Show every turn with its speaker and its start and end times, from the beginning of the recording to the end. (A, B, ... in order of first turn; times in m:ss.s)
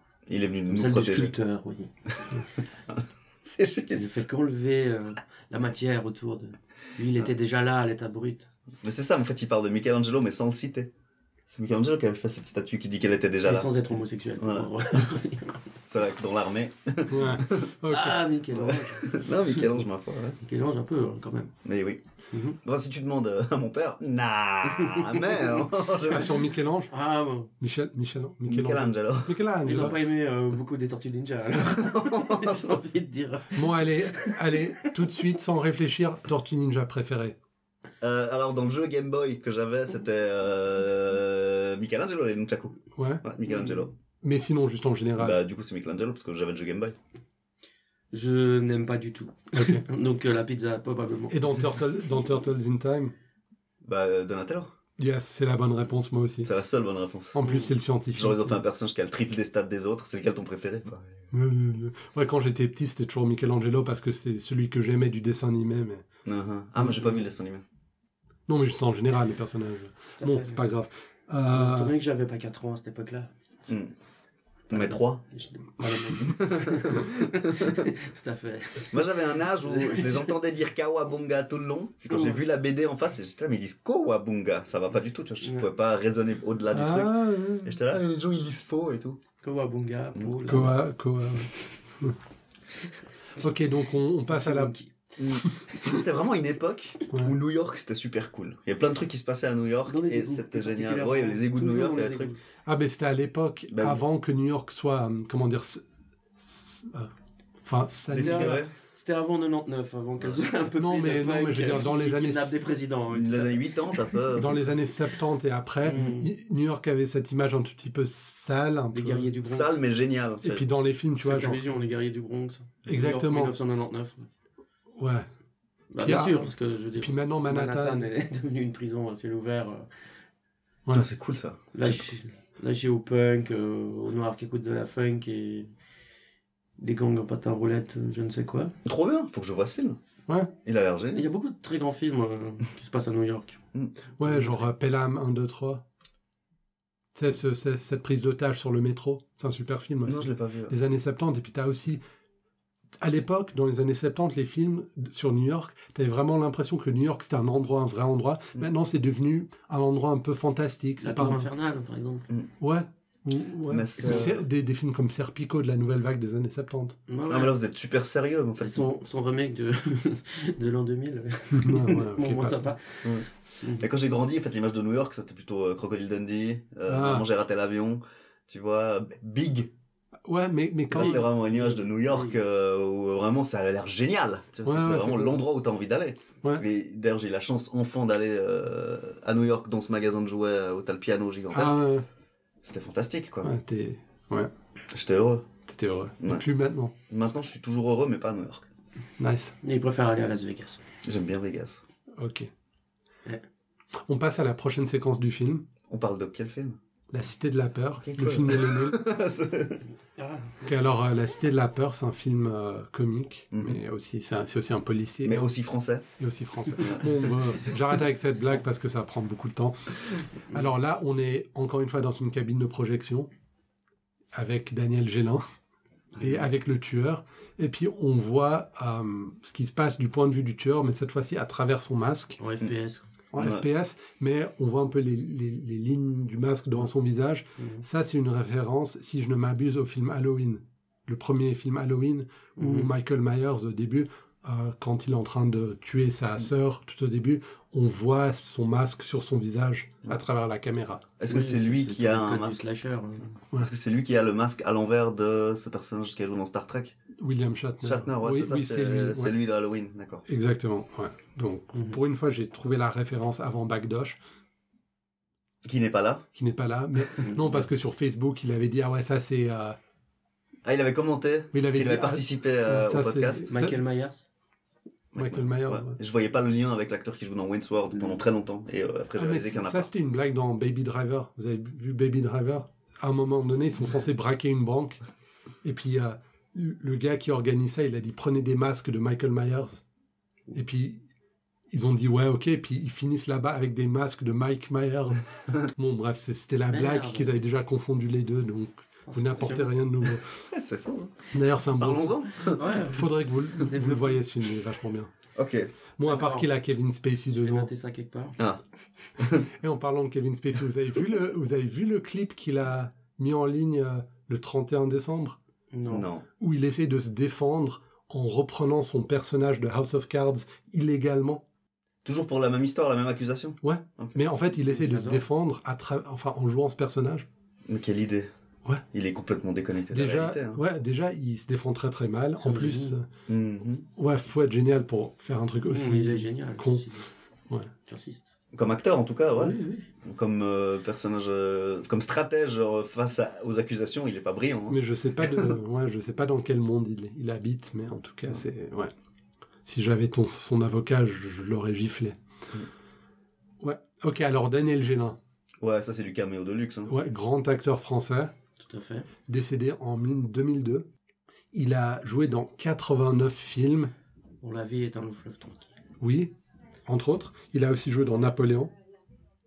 0:00.3-0:01.3 A
0:00.7-0:01.9 B
0:02.9-0:04.2 A
0:03.9-0:08.5 B
0:08.8-0:10.9 A
0:11.5-0:13.7 A
0:13.4-0:15.6 B
0:14.4-0:15.0 A
0:15.9-0:17.7 A
0:17.1-0:18.3 C
0:17.8-0:19.7 B
0:18.5-0:20.4 A
0:20.4-0:21.5 B
0:21.6-0:22.0 A
0:22.3-0:22.6 B
0:22.6-0:26.4 A
0:24.8-0:25.5 B
0:26.0-0:26.9 C
0:26.9-0:27.5 B
0:27.6-0:30.0 C
0:28.5-0:29.4 A
0:29.6-0:34.9 B
0:31.7-0:32.8 A
0:33.5-0:37.4 C
0:38.0-0:43.9 A
0:42.9-0:43.2 C
0:44.2-0:45.4 C
0:45.2-0:47.0 A
0:48.1-0:51.5 B
0:49.5-0:49.8 C
0:51.3-0:53.1 C
0:53.8-0:54.7 A
0:55.0-0:56.5 C
0:56.4-0:57.4 A
0:57.3-0:58.6 C
0:57.4-0:57.7 B
0:58.1-1:01.2 A
1:01.3-1:06.0 C
1:06.2-1:07.6 A
1:08.5-1:11.9 C
1:10.2-1:10.6 B
1:11.5-1:13.3 B
1:13.7-1:13.9 A
1:14.7-1:15.2 A
1:14.7-1:20.3 B
1:15.9-1:17.9 A
1:18.9-1:29.2 A
1:22.1-1:22.4 B
1:26.7-1:27.8 C
1:29.4-1:30.8 B
1:30.4-1:32.2 C
1:33.4-1:34.7 C
1:34.3-1:35.9 B
1:35.2-1:42.3 A
1:39.9-1:42.4 B
1:42.6-1:45.8 C
1:43.7-1:44.0 A
1:46.4-1:47.1 C
1:47.6-1:48.6 C
1:48.1-1:48.7 A
1:48.1-1:54.2 B
1:50.8-1:52.8 C
1:53.1-1:54.8 A
1:54.4-1:59.3 C
1:55.8-1:56.3 B
1:58.9-1:59.8 B
1:59.4-2:00.6 A
2:00.4-2:01.6 C
2:01.2-2:04.3 B
2:02.9-2:03.5 C
2:04.9-2:05.3 C
2:05.9-2:09.9 B
2:06.0-2:08.0 C
2:10.9-2:12.0 A
2:11.7-2:15.7 B
2:16.8-2:18.7 B
2:18.8-2:20.0 A
2:20.6-2:21.2 A
2:21.1-2:23.6 B
2:24.2-2:25.8 C
2:24.2-2:24.6 B
2:27.1-2:32.0 C
2:30.0-2:30.8 A
2:33.0-2:41.5 C
2:41.0-2:42.3 B
2:42.6-2:47.0 C
2:43.7-2:44.4 A
2:47.1-2:47.5 B
2:47.3-2:48.8 A
2:48.6-2:53.8 B
2:51.5-2:52.7 C
2:53.0-2:59.7 A
2:56.9-2:57.3 C
3:00.2-3:01.2 C
3:00.9-3:11.8 A
3:01.0-3:02.4 B
3:04.6-3:05.4 C
3:11.5-3:12.0 C
3:12.6-3:13.5 A
3:13.4-3:14.5 C
3:14.9-3:15.4 A
3:15.6-3:16.9 C
3:16.2-3:16.4 A
3:17.1-3:18.7 A
3:19.2-3:19.6 C
3:19.6-3:20.8 B
3:21.0-3:21.8 A
3:22.2-3:22.5 C
3:24.0-3:25.6 C
3:25.9-3:26.8 A
3:27.1-3:29.0 C
3:28.0-3:29.8 A
3:30.2-3:30.8 B
3:30.6-3:35.5 C
3:33.5-3:33.8 A
3:35.2-3:36.0 A
3:36.2-3:40.0 C
3:36.7-3:37.7 A
3:40.5-3:43.3 C
3:44.3-3:45.4 C
3:46.1-3:46.5 A
3:46.2-3:52.4 C
3:52.4-3:53.0 B
3:53.3-4:11.1 C
3:53.4-3:53.6 A
3:57.6-3:57.8 B
4:02.6-4:02.9 B
4:11.2-4:12.6 A
4:11.3-4:13.3 B
4:13.4-4:16.9 A
4:17.2-4:19.3 C
4:17.8-4:20.2 A
4:20.2-4:24.2 C
4:25.6-4:26.2 A
4:26.3-4:29.8 C
4:27.2-4:27.7 B
4:30.6-4:33.5 A
4:31.5-4:33.8 C
4:33.5-4:34.3 B
4:35.1-4:39.9 A
4:35.2-4:36.0 C
4:39.2-4:45.0 C
4:45.6-4:49.8 C
4:50.5-4:51.0 C
4:51.7-5:00.3 C
4:56.7-4:57.3 B
4:59.0-4:59.7 B
5:00.4-5:02.6 A
5:01.3-5:05.1 C
5:02.6-5:04.2 B
5:05.3-5:05.7 A
5:06.0-5:07.7 C
5:06.1-5:06.5 B
5:07.3-5:08.4 B
5:09.2-5:09.5 A
5:09.6-5:15.4 C
5:15.7-5:16.1 B
5:15.8-5:16.2 A
5:16.4-5:21.4 C
5:22.0-5:24.2 A
5:23.6-5:27.2 C
5:24.6-5:25.2 B
5:27.7-5:28.3 A
5:28.9-5:30.6 A
5:29.9-5:33.1 C
5:32.4-5:33.0 B
5:33.3-5:33.8 A
5:34.0-5:36.8 C
5:35.7-5:37.1 B
5:37.8-5:38.2 B
5:38.5-5:45.5 A
5:39.4-5:39.9 B
5:44.7-5:48.9 C
5:49.6-5:52.2 C
5:53.6-5:55.2 C
5:55.6-5:56.9 A
5:56.9-5:58.3 C
5:58.6-5:59.1 B
5:59.3-6:00.8 C
6:01.5-6:03.9 C
6:04.4-6:05.6 B
6:06.0-6:06.3 C
6:06.8-6:08.7 C